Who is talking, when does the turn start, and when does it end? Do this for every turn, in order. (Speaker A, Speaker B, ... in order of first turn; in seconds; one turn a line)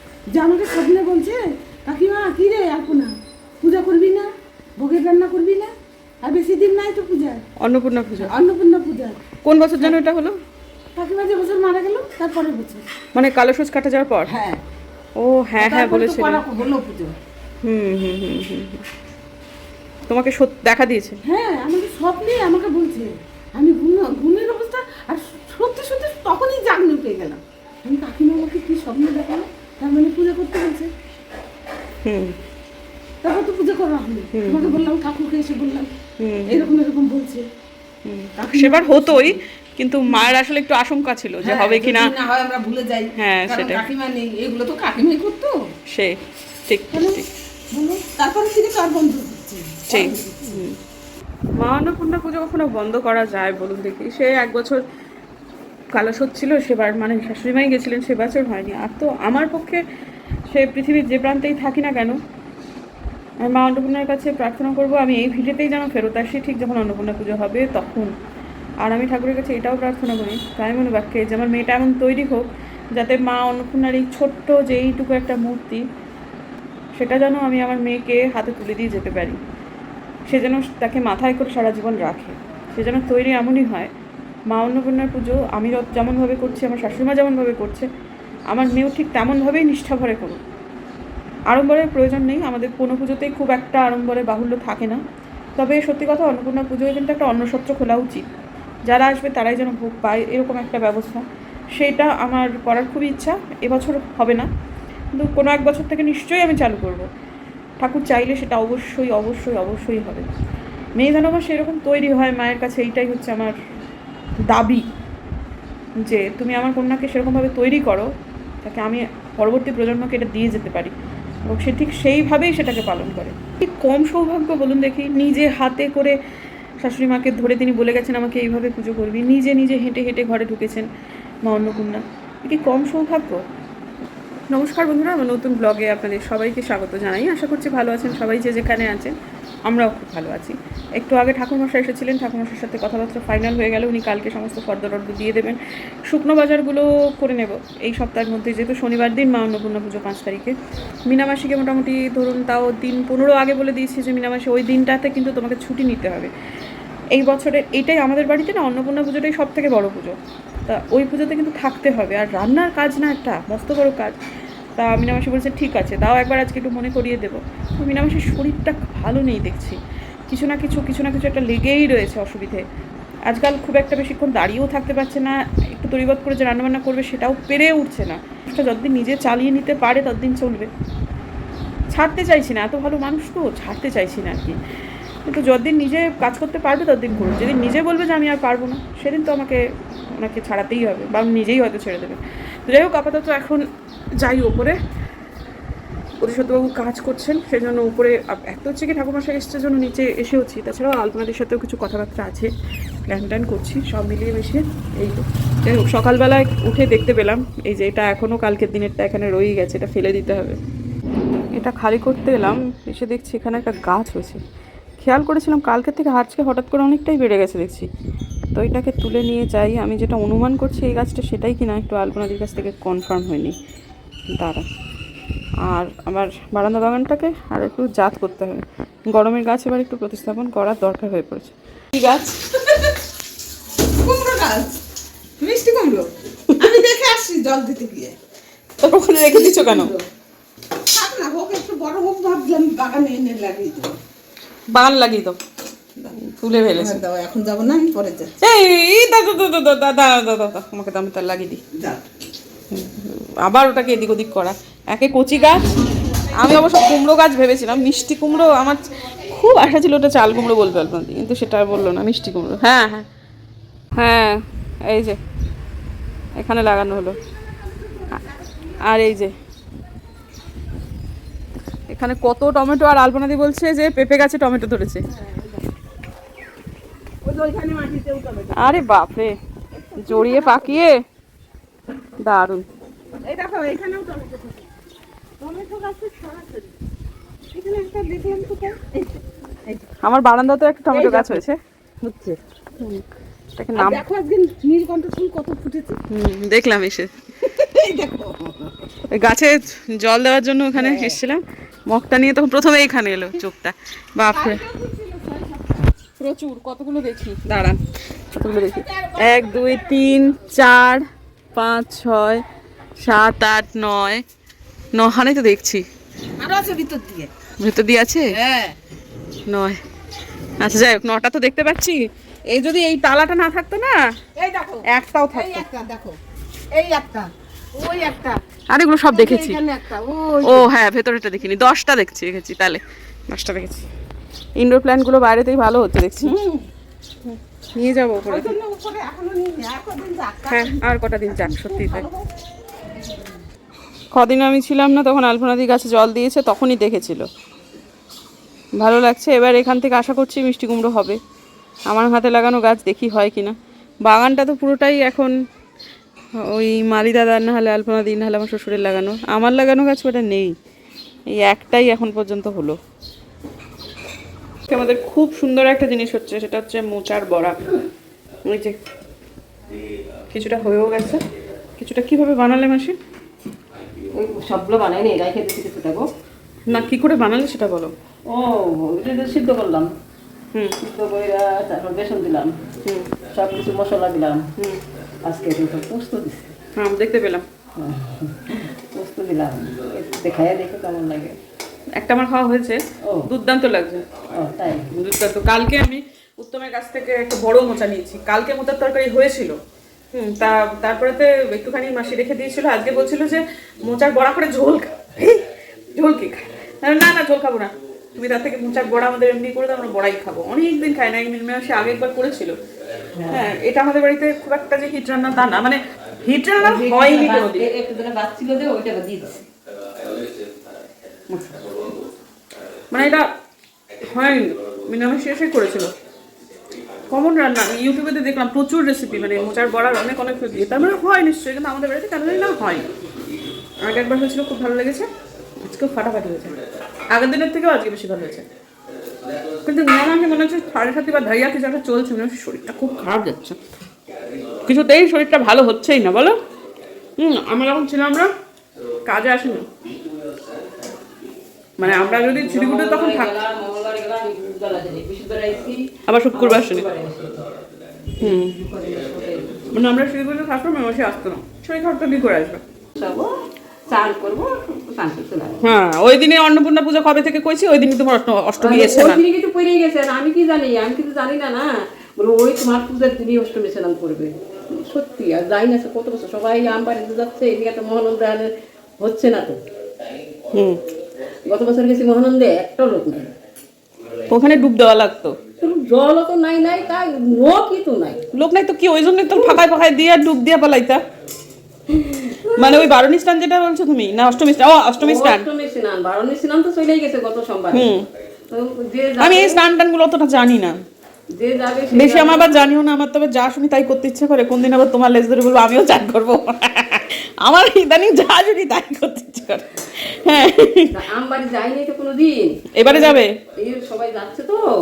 Speaker A: 0.3-5.7
Speaker A: 6.2-7.4
Speaker B: 7.6-8.4
Speaker A: 8.2-9.2
Speaker B: 9.4-10.4
Speaker A: 10.9-12.8
Speaker B: 13.1-14.3
Speaker A: 14.2-14.6
Speaker B: 15.2-16.4
Speaker A: 15.6-17.1
Speaker B: 17.6-18.8
Speaker B: 20.1-21.2
Speaker A: 21.2-30.9
Speaker B: 32.0-32.4
Speaker A: 33.2-35.9
Speaker B: 34.3-34.9
Speaker B: 36.2-36.7
Speaker A: 36.5-37.5
Speaker B: 38.0-42.1
Speaker A: 38.4-39.4
Speaker A: 41.4-45.5
Speaker B: 43.1-43.9
Speaker B: 45.9-47.3
Speaker A: 46.9-50.6
Speaker B: 49.9-50.8
Speaker B: 51.6-54.8
Speaker B: 55.9-59.8
Speaker B: 60.5-62.2
Speaker B: 63.4-68.1
Speaker B: 68.8-75.8
Speaker B: 77.0-79.4
Speaker B: 80.3-83.9
Speaker B: 84.5-87.9
Speaker B: 88.5-90.4
Speaker B: 91.5-95.0
Speaker B: 95.6-98.3
Speaker B: 98.8-101.2
Speaker B: 101.7-104.5
Speaker B: 105.1-107.1
Speaker B: 107.8-110.3
Speaker B: 111.0-113.5
Speaker B: 114.5-114.8
Speaker B: 116.0-118.1
Speaker B: 118.6-120.9
Speaker B: 121.5-126.2
Speaker B: 126.8-130.9
Speaker B: 131.4-133.4
Speaker B: 134.5-150.5
Speaker B: 151.1-156.3
Speaker B: 157.1-164.2
Speaker B: 164.8-172.6
Speaker B: 173.3-180.7
Speaker B: 181.9-184.6
Speaker B: 185.2-193.6
Speaker B: 194.2-194.8
Speaker B: 196.2-202.5
Speaker B: 203.1-210.6
Speaker B: 211.5-214.4
Speaker B: 215.0-217.9
Speaker B: 218.5-223.6
Speaker B: 224.3-224.6
Speaker B: 225.6-232.4
Speaker A: 234.0-234.8
Speaker A: 235.4-238.2
Speaker B: 236.5-236.8
Speaker B: 238.8-239.9
Speaker A: 239.3-240.1
Speaker A: 240.9-244.0
Speaker B: 244.7-245.4
Speaker B: 246.1-247.0
Speaker A: 246.8-248.4
Speaker B: 248.4-251.6
Speaker A: 251.7-252.0
Speaker B: 252.7-255.7
Speaker B: 256.3-263.1
Speaker B: 263.9-265.2
Speaker B: 266.4-267.2
Speaker A: 267.6-268.3
Speaker B: 268.8-269.3
Speaker B: 271.9-275.0
Speaker A: 275.1-275.6
Speaker A: 277.2-278.8
Speaker B: 278.5-279.4
Speaker A: 279.7-280.8
Speaker B: 280.0-281.0
Speaker B: 282.2-282.6
Speaker A: 283.2-284.7
Speaker A: 285.4-286.7
Speaker A: 287.5-289.9
Speaker B: 290.0-291.6
Speaker A: 290.9-291.4
Speaker A: 292.0-292.4
Speaker B: 293.6-294.0
Speaker A: 293.7-296.0
Speaker B: 296.1-297.1
Speaker A: 297.4-298.7
Speaker B: 299.1-304.6
Speaker A: 300.7-301.2
Speaker A: 304.3-305.9
Speaker B: 306.2-312.4
Speaker A: 308.5-309.8
Speaker B: 313.0-314.2
Speaker B: 314.9-315.8
Speaker A: 316.4-317.3
Speaker B: 317.6-318.3
Speaker A: 318.3-318.8
Speaker B: 319.5-319.8
Speaker B: 320.6-323.9
Speaker A: 324.4-326.2
Speaker B: 324.9-325.6
Speaker A: 326.7-328.4
Speaker B: 328.7-329.6
Speaker A: 329.1-330.7
Speaker B: 330.4-333.9
Speaker B: 334.6-336.4
Speaker A: 336.2-336.6
Speaker B: 337.2-338.5
Speaker A: 338.2-342.3
Speaker B: 340.5-342.1
Speaker B: 344.1-347.2
Speaker B: 348.8-351.2
Speaker B: 351.9-355.3
Speaker B: 356.4-360.5
Speaker B: 361.3-362.8
Speaker B: 364.7-367.6
Speaker B: 368.4-368.8
Speaker B: 370.3-371.2
Speaker B: 371.8-372.9
Speaker C: 374.1-376.1
Speaker B: 376.7-377.9
Speaker C: 378.3-379.9
Speaker C: 380.8-382.5
Speaker C: 383.3-384.4
Speaker C: 385.2-386.5
Speaker B: 386.8-387.4
Speaker C: 387.8-391.4
Speaker B: 391.9-394.1
Speaker C: 394.3-394.9
Speaker B: 394.9-399.6
Speaker B: 400.1-405.4
Speaker B: 405.9-412.5
Speaker C: 413.2-413.5
Speaker B: 413.3-417.7
Speaker C: 416.6-419.4
Speaker B: 422.9-423.2
Speaker B: 424.1-425.9
Speaker B: 427.1-432.9
Speaker B: 433.8-435.1
Speaker B: 435.6-436.6
Speaker B: 437.1-438.4
Speaker B: 439.6-443.6
Speaker B: 444.6-446.4
Speaker B: 447.2-448.3
Speaker B: 449.1-449.7
Speaker B: 451.8-453.4
Speaker C: 451.8-457.4
Speaker B: 456.1-456.9
Speaker B: 458.2-458.5
Speaker C: 458.2-459.8
Speaker B: 459.7-462.6
Speaker C: 462.9-463.4
Speaker C: 463.9-465.6
Speaker B: 465.6-469.2
Speaker C: 468.6-471.6
Speaker C: 472.2-479.6
Speaker B: 480.5-480.8
Speaker C: 481.4-483.3
Speaker B: 484.3-485.4
Speaker C: 485.6-488.2
Speaker B: 488.3-491.0
Speaker C: 491.9-492.9
Speaker B: 492.3-495.4
Speaker C: 495.0-497.9
Speaker B: 497.7-498.1
Speaker C: 498.5-499.6
Speaker B: 499.2-500.7
Speaker C: 501.3-502.6
Speaker B: 501.9-510.9
Speaker C: 510.9-514.6
Speaker B: 512.7-513.3